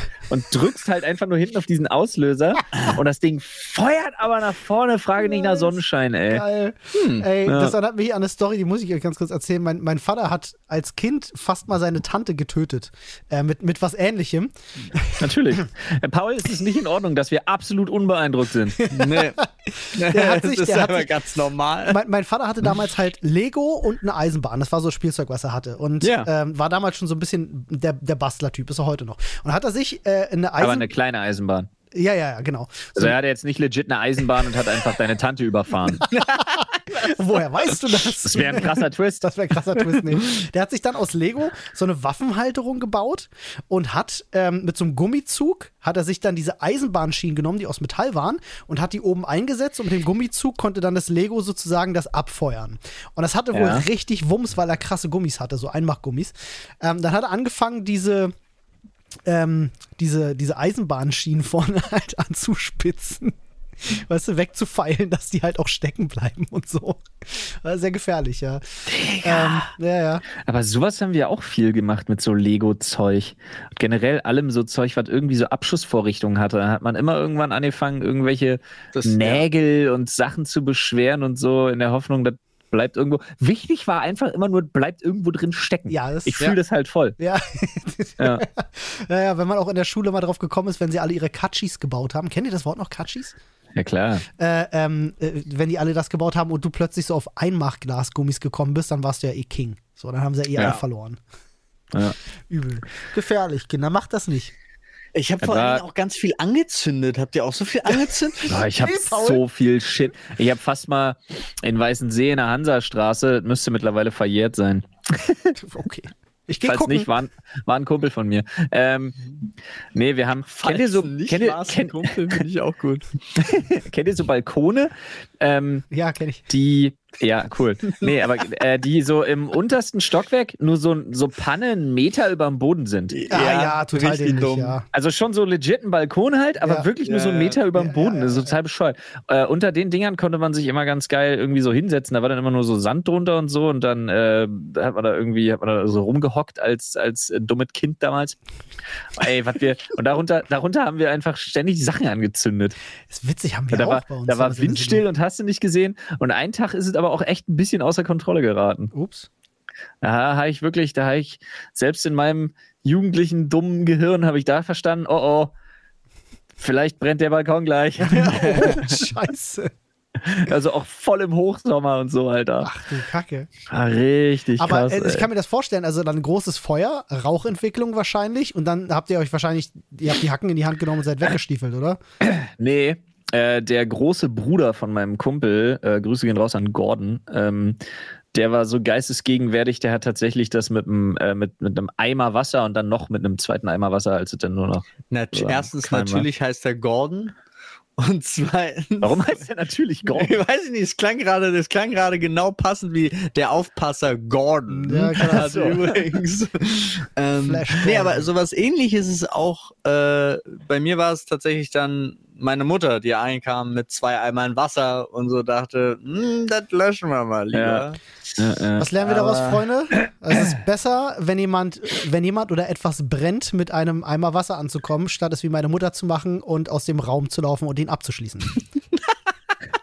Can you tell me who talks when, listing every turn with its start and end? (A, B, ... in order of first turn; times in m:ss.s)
0:00.3-0:06.4 A
0:05.2-0:05.8 B
0:06.3-0:15.2 B
0:06.9-0:07.2 C
0:07.4-0:07.8 A
0:15.2-0:18.8 A
0:18.8-0:21.1 B
0:18.9-0:19.4 C
0:19.9-0:22.0 C
0:21.9-0:30.9 B
0:26.0-0:26.3 C
0:30.6-0:31.7 A
0:31.9-0:33.1 B
0:32.9-0:36.1 A
0:36.0-0:58.3 B
0:36.1-0:36.4 C
0:38.2-0:39.3 A
0:53.5-0:53.8 A
0:59.3-1:03.3 B
1:03.9-1:10.2 B
1:08.9-1:09.7 A
1:10.4-1:27.2 A
1:18.9-1:19.4 C
1:25.9-1:26.4 B
1:27.2-1:33.4 B
1:28.2-1:28.4 A
1:33.8-1:34.2 A
1:34.4-1:41.2 B
1:41.9-1:42.2 A
1:42.5-1:44.5 B
1:45.1-1:48.6 C
1:45.4-1:45.8 A
1:48.5-1:55.6 A
1:48.7-1:49.4 B
1:55.6-1:57.1 B
1:56.6-1:59.2 A
1:59.9-2:02.4 A
2:00.5-2:03.1 C
2:03.4-2:05.8 A
2:05.9-2:06.4 B
2:06.5-2:13.2 A
2:13.1-2:14.8 C
2:13.3-2:14.8 B
2:14.9-2:28.4 A
2:17.0-2:17.6 C
2:17.7-2:18.5 B
2:29.2-2:32.7 A
2:33.1-2:35.0 B
2:33.7-2:38.9 A
2:38.9-2:39.3 B
2:40.0-2:45.5 A
2:46.6-2:48.8 A
2:48.0-2:49.7 B
2:48.5-2:48.8 C
2:50.2-2:52.7 A
2:52.6-2:53.5 B
2:53.7-2:55.3 A
2:54.6-3:02.0 B
3:02.2-3:07.8 A
3:08.3-3:16.3 A
3:15.1-3:17.3 C
3:18.0-3:19.4 C
3:19.0-3:20.4 A
3:20.1-3:38.0 C
3:24.7-3:25.7 B
3:25.2-3:25.8 A
3:27.4-3:28.3 B
3:37.5-3:39.5 A
3:38.8-3:48.6 B
3:39.2-3:39.5 C